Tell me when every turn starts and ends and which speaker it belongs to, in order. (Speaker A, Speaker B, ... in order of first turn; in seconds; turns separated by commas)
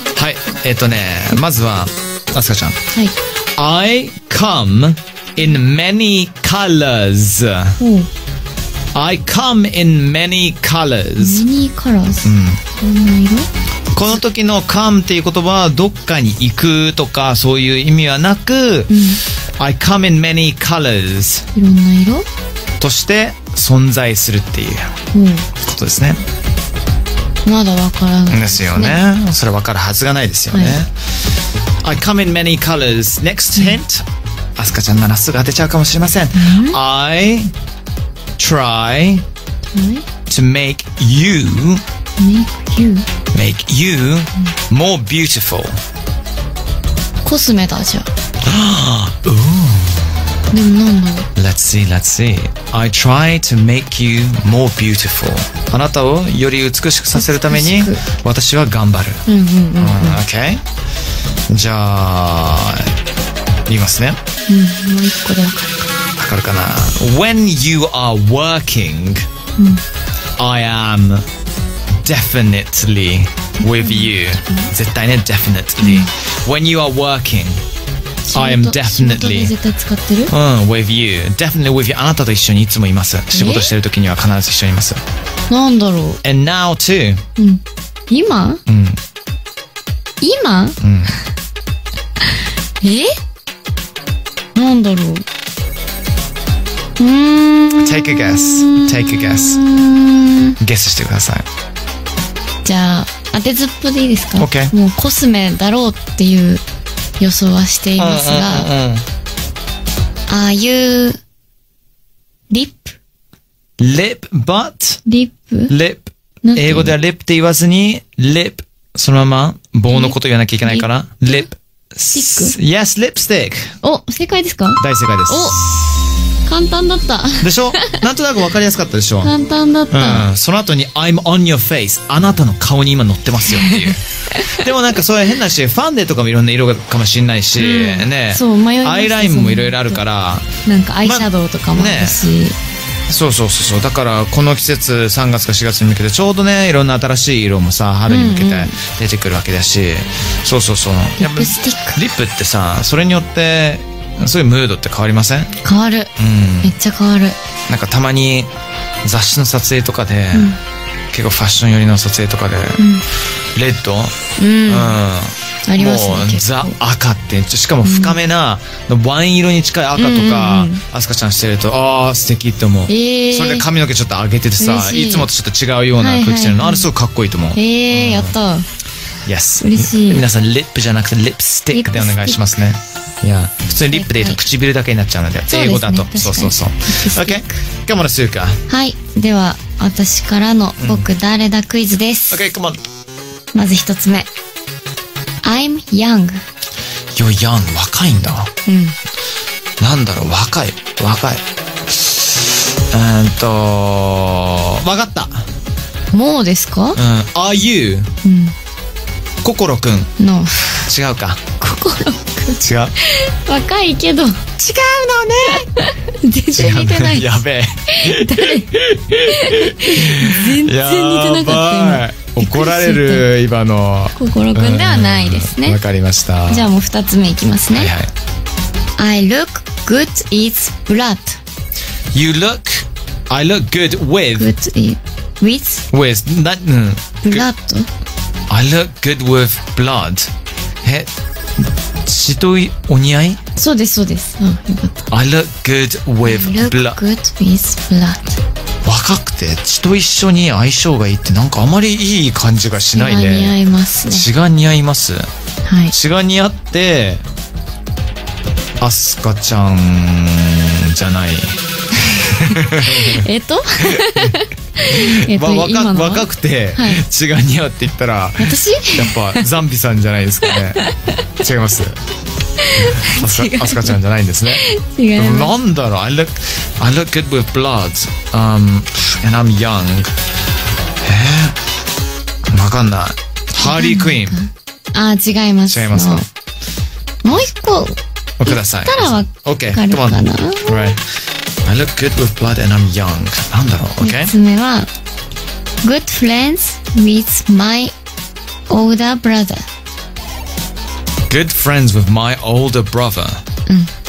Speaker A: 0.1-2.8, Speaker A: 3.6-7.8, Speaker B: 7.8-8.1, Speaker A: 8.9-11.4, Speaker B: 11.2-13.5, Speaker A: 12.2-12.6, Speaker A: 13.9-19.0, Speaker B: 18.9-19.2, Speaker A: 19.6-21.4, Speaker B: 21.5-22.3, Speaker A: 22.8-24.9, Speaker B: 25.1-25.5, Speaker A: 25.6-26.2, Speaker B: 27.4-29.0, Speaker A: 28.3-30.9, Speaker B: 30.5-30.8, Speaker A: 31.8-34.0, Speaker A: 34.6-37.5, Speaker B: 36.3-36.8, Speaker A: 38.4-39.2, Speaker B: 39.7-40.0, Speaker A: 40.3-41.8, Speaker B: 42.2-43.1, Speaker A: 43.3-45.8, Speaker B: 47.2-48.1, Speaker A: 48.4-50.3, Speaker B: 50.5-51.3, Speaker A: 51.4-59.2, Speaker B: 57.1-58.0, Speaker B: 59.2-60.2, Speaker A: 59.8-60.6, Speaker A: 61.5-62.9, Speaker A: 63.7-64.2, Speaker B: 64.5-65.7, Speaker A: 66.2-69.2, Speaker B: 69.6-69.8, Speaker A: 70.4-71.2, Speaker A: 72.0-77.6, Speaker B: 73.6-74.7, Speaker B: 75.8-76.1, Speaker B: 78.2-80.3, Speaker A: 78.3-79.5, Speaker A: 80.3-85.0, Speaker B: 83.3-83.7, Speaker B: 85.5-86.2, Speaker A: 86.2-87.2, Speaker B: 87.4-88.6, Speaker A: 88.7-89.0, Speaker B: 90.2-90.8, Speaker A: 90.8-91.1, Speaker B: 92.8-93.1, Speaker B: 94.5-95.2, Speaker B: 97.0-100.5, Speaker A: 97.8-99.6, Speaker A: 100.6-101.5, Speaker B: 102.6-106.6, Speaker A: 104.4-104.7, Speaker B: 107.2-108.7, Speaker A: 108.0-109.0, Speaker B: 110.3-111.2, Speaker B: 112.5-112.9, Speaker A: 113.8-115.0, Speaker B: 115.0-115.7, Speaker A: 115.7-123.8, Speaker B: 116.4-116.9, Speaker B: 119.9-121.5, Speaker B: 122.1-122.5, Speaker B: 123.8-128.0, Speaker A: 124.8-125.7, Speaker A: 127.4-129.3, Speaker B: 129.2-130.3, Speaker A: 129.9-140.5, Speaker B: 133.4-134.6, Speaker B: 137.6-140.0, Speaker B: 140.6-142.6, Speaker A: 141.0-142.2, Speaker A: 143.1-155.6, Speaker B: 148.1-148.8, Speaker B: 151.2-152.0, Speaker B: 155.6-156.1, Speaker A: 156.2-156.7, Speaker B: 156.6-157.3, Speaker A: 157.7-158.5, Speaker A: 159.0-160.6, Speaker B: 160.3-160.6, Speaker A: 161.1-162.8, Speaker B: 162.8-163.0, Speaker A: 163.5-178.3, Speaker B: 164.4-165.0, Speaker B: 165.7-166.8, Speaker B: 167.8-168.2, Speaker B: 169.9-170.8, Speaker B: 172.9-173.6, Speaker B: 174.6-175.3, Speaker B: 176.0-176.9, Speaker B: 177.5-178.7, Speaker A: 179.2-188.6, Speaker B: 179.6-180.2, Speaker B: 181.7-182.6, Speaker B: 183.9-184.4, Speaker B: 185.5-187.6, Speaker B: 188.7-192.4, Speaker A: 190.8-191.1, Speaker A: 192.3-192.8, Speaker B: 193.5-194.3, Speaker B: 195.4-196.4, Speaker A: 197.1-198.5, Speaker B: 198.7-198.9, Speaker A: 199.8-205.4, Speaker B: 206.1-207.0, Speaker A: 206.9-208.1, Speaker B: 208.2-208.5, Speaker A: 209.4-210.1, Speaker B: 210.2-210.9, Speaker A: 210.8-211.4, Speaker B: 211.6-223.3, Speaker A: 212.6-212.9, Speaker A: 215.4-215.6, Speaker A: 216.5-226.7, Speaker B: 224.1-225.8, Speaker B: 226.5-227.9, Speaker A: 227.7-228.1, Speaker B: 229.0-231.4, Speaker A: 232.1-234.5, Speaker B: 234.3-235.8, Speaker A: 235.9-237.5, Speaker B: 237.2-237.9, Speaker A: 238.5-240.3, Speaker A: 240.8-241.1, Speaker A: 241.6-243.4, Speaker B: 243.6-245.1, Speaker A: 245.1-247.0, Speaker B: 246.2-248.3, Speaker A: 248.8-255.3, Speaker B: 252.9-254.3, Speaker B: 255.6-255.9, Speaker A: 255.9-257.2, Speaker A: 258.8-263.2, Speaker B: 262.5-267.0, Speaker A: 263.8-270.8, Speaker B: 268.4-269.5, Speaker B: 270.5-271.1, Speaker A: 271.4-272.0, Speaker B: 272.6-275.5, Speaker A: 272.8-274.6, Speaker A: 275.2-280.1, Speaker A: 281.0-281.6, Speaker A: 282.5-284.4, Speaker B: 283.6-286.2, Speaker A: 285.7-286.2, Speaker B: 287.2-290.9, Speaker A: 288.4-291.0, Speaker A: 291.6-294.3, Speaker B: 294.0-294.9, Speaker B: 295.8-297.9, Speaker B: 298.7-299.6, Speaker A: 301.3-303.4